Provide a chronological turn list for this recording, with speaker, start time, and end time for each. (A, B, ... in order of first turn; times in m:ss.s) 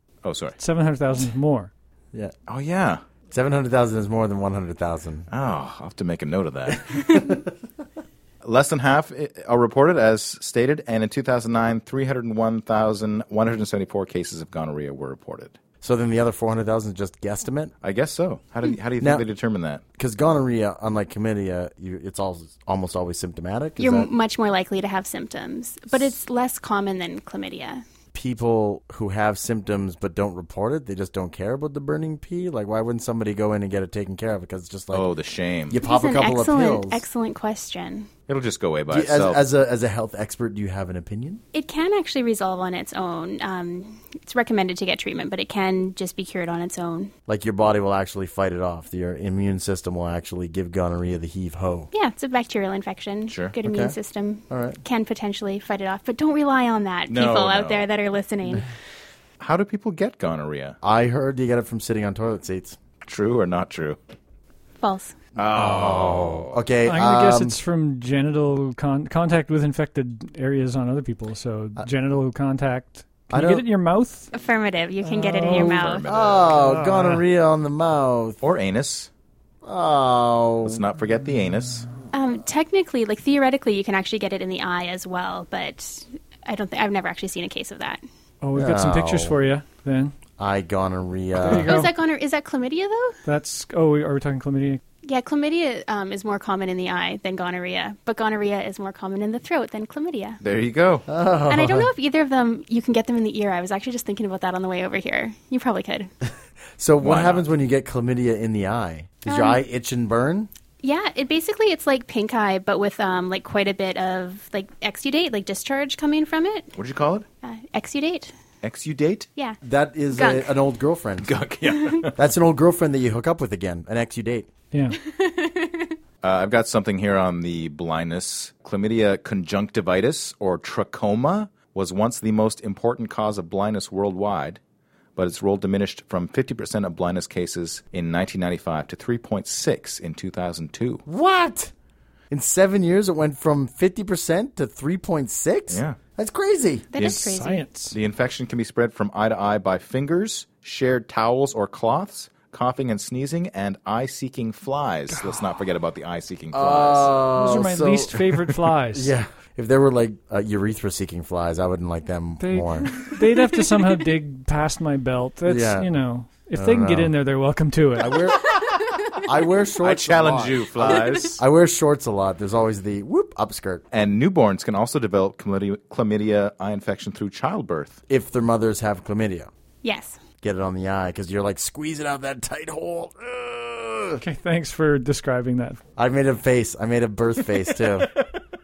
0:00.2-0:00.6 A
0:00.6-0:01.7 B
0:02.5-0:03.0 A
0:03.3-0:05.3 C
0:05.3-0:07.2 A
0:06.7-0:07.5 C
0:08.4-0:15.6 A
0:15.8-0:17.7 C
0:17.8-0:19.8 A
0:19.0-0:19.2 C
0:20.0-0:24.1 C
0:23.8-0:27.8 D
0:28.1-0:35.1 C
0:34.9-0:35.8 A
0:35.7-0:37.0 C
0:35.8-0:38.1 D
0:38.3-0:39.4 A
0:38.9-0:41.4 C
0:41.5-0:47.1 D
0:47.3-0:51.9 C
0:51.9-0:58.7 D
0:53.3-0:53.5 A
0:53.6-0:54.0 C
0:54.5-0:54.8 C
0:57.1-0:57.9 A
0:59.4-1:00.8 A
1:00.8-1:02.8 C
1:03.0-1:04.0 A
1:04.8-1:05.2 D
1:05.4-1:06.6 A
1:05.4-1:07.6 C
1:06.8-1:14.3 B
1:13.3-1:13.6 C
1:14.3-1:16.0 D
1:15.0-1:15.8 B
1:15.5-1:16.6 A
1:16.0-1:18.4 C
1:16.5-1:17.2 B
1:18.4-1:19.1 A
1:19.6-1:20.8 C
1:20.6-1:21.9 A
1:22.1-1:28.0 D
1:28.4-1:30.1 B
1:28.6-1:29.4 C
1:30.4-1:31.8 C
1:31.4-1:31.9 B
1:31.5-1:33.2 D
1:33.2-1:34.8 B
1:35.0-1:40.4 D
1:40.4-1:41.1 A
1:41.1-1:41.9 C
1:41.5-1:46.1 D
1:46.8-1:50.5 C
1:47.0-1:47.4 A
1:49.2-1:49.6 D
1:50.8-1:56.7 D
1:56.8-1:57.3 A
1:57.4-1:58.3 D
1:58.6-1:59.3 A
1:59.6-2:01.3 C
2:00.1-2:00.5 D
2:01.2-2:02.2 A
2:01.7-2:02.0 D
2:02.2-2:04.5 C
2:04.7-2:05.0 B
2:05.0-2:05.9 D
2:06.2-2:14.6 A
2:15.2-2:21.0 A
2:21.1-2:21.7 C
2:22.3-2:26.9 C
2:25.7-2:26.0 A
2:26.9-2:27.7 D
2:27.0-2:27.4 A
2:27.3-2:28.0 B
2:27.9-2:37.2 A
2:36.5-2:43.1 C
2:37.4-2:39.1 B
2:42.4-2:48.2 B
2:45.5-2:45.9 C
2:46.6-2:47.1 C
2:48.0-2:48.6 C
2:49.1-2:53.8 C
2:49.8-2:51.4 A
2:53.9-2:58.0 A
2:58.1-2:59.5 C
2:59.8-3:00.2 D
3:00.4-3:04.2 C
3:04.2-3:05.8 B
3:06.0-3:08.1 C